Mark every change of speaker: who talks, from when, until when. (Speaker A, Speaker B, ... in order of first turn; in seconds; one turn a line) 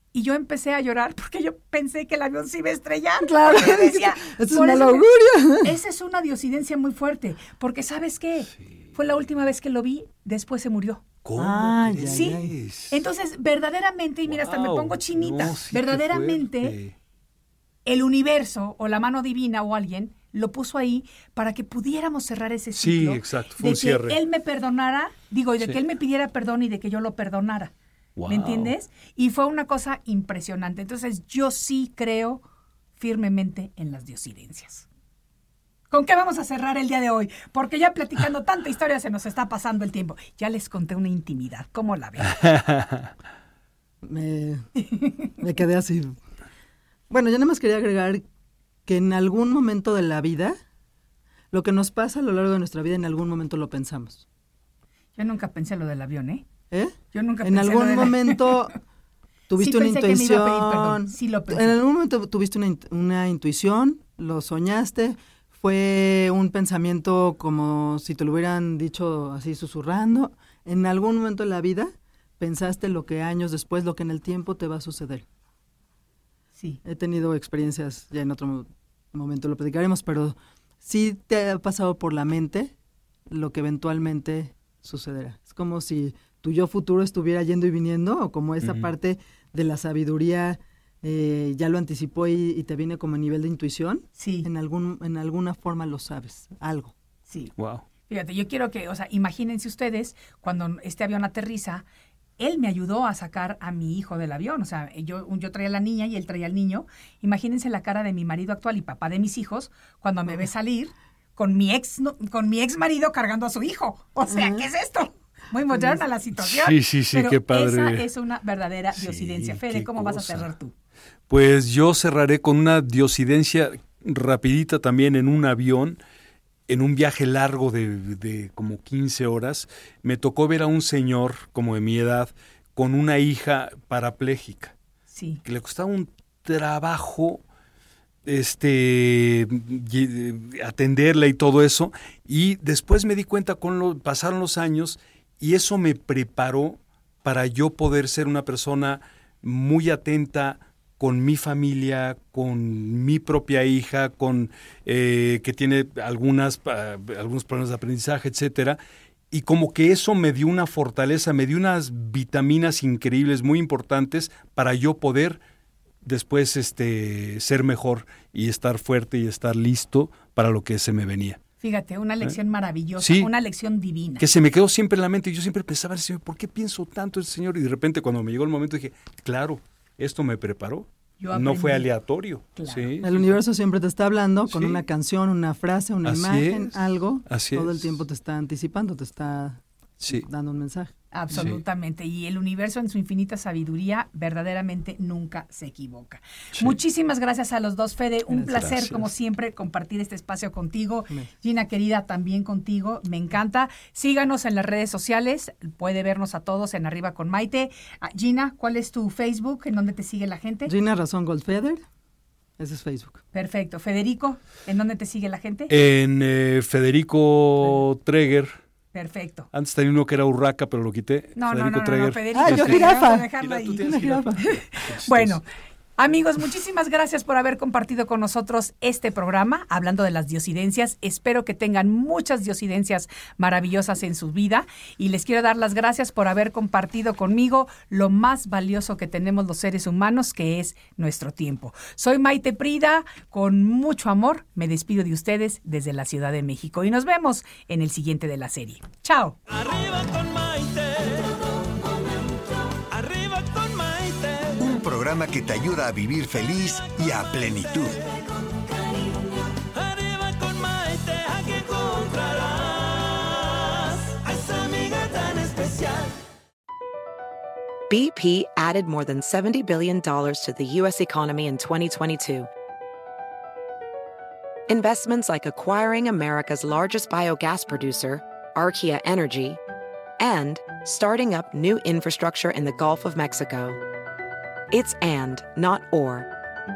Speaker A: 0.1-5.0
Speaker B: 3.2-5.8
Speaker A: 5.6-11.1
Speaker C: 11.2-13.0
Speaker B: 11.4-12.6
Speaker A: 12.1-16.8
Speaker C: 14.3-16.9
Speaker A: 17.9-27.7
Speaker C: 22.8-24.2
Speaker C: 28.2-28.7
Speaker A: 28.3-32.4
Speaker A: 33.0-34.9
Speaker A: 35.9-42.4
Speaker C: 42.2-43.1
Speaker B: 44.0-44.7
Speaker A: 44.9-45.2
Speaker B: 45.4-46.2
Speaker B: 47.1-48.2
Speaker B: 48.9-50.6
Speaker B: 51.5-54.2
Speaker A: 55.2-56.5
Speaker B: 56.7-58.8
Speaker A: 57.1-58.5
Speaker B: 59.5-75.3
Speaker A: 59.5-61.8
Speaker B: 76.8-82.7
Speaker B: 83.3-96.9
Speaker C: 88.6-88.9
Speaker A: 94.2-94.5
Speaker A: 97.3-97.5
Speaker C: 97.6-97.8
Speaker A: 98.1-101.8
Speaker A: 102.4-120.7
Speaker B: 114.3-114.7
Speaker B: 115.7-116.0
Speaker C: 116.4-118.1
Speaker C: 119.0-120.5
Speaker C: 121.3-126.0
Speaker C: 126.7-134.7
Speaker A: 135.1-135.4
Speaker C: 135.4-137.4
Speaker C: 138.3-158.8
Speaker C: 159.3-165.4
Speaker C: 166.0-171.4
Speaker A: 171.6-174.2
Speaker C: 173.0-173.3
Speaker C: 174.2-183.4
Speaker A: 181.2-181.9
Speaker A: 182.6-182.9
Speaker B: 183.0-190.9
Speaker C: 184.5-184.8
Speaker C: 186.0-186.8
Speaker C: 187.3-187.9
Speaker C: 190.0-190.3
Speaker A: 191.1-210.7
Speaker C: 191.3-191.6
Speaker B: 198.3-198.9
Speaker C: 198.4-199.0
Speaker B: 210.7-211.8
Speaker B: 212.6-213.2
Speaker A: 213.3-215.7
Speaker C: 215.7-218.6
Speaker A: 218.9-219.5
Speaker C: 219.5-225.4
Speaker A: 221.4-224.0
Speaker B: 222.3-223.3
Speaker B: 223.8-224.4
Speaker A: 224.5-225.5
Speaker A: 226.0-249.4
Speaker D: 249.5-252.1
Speaker D: 252.7-254.8
Speaker E: 254.6-258.0
Speaker D: 256.8-266.2
Speaker F: 267.9-272.5
Speaker F: 274.7-279.6
Speaker F: 280.2-283.8
Speaker F: 284.7-286.3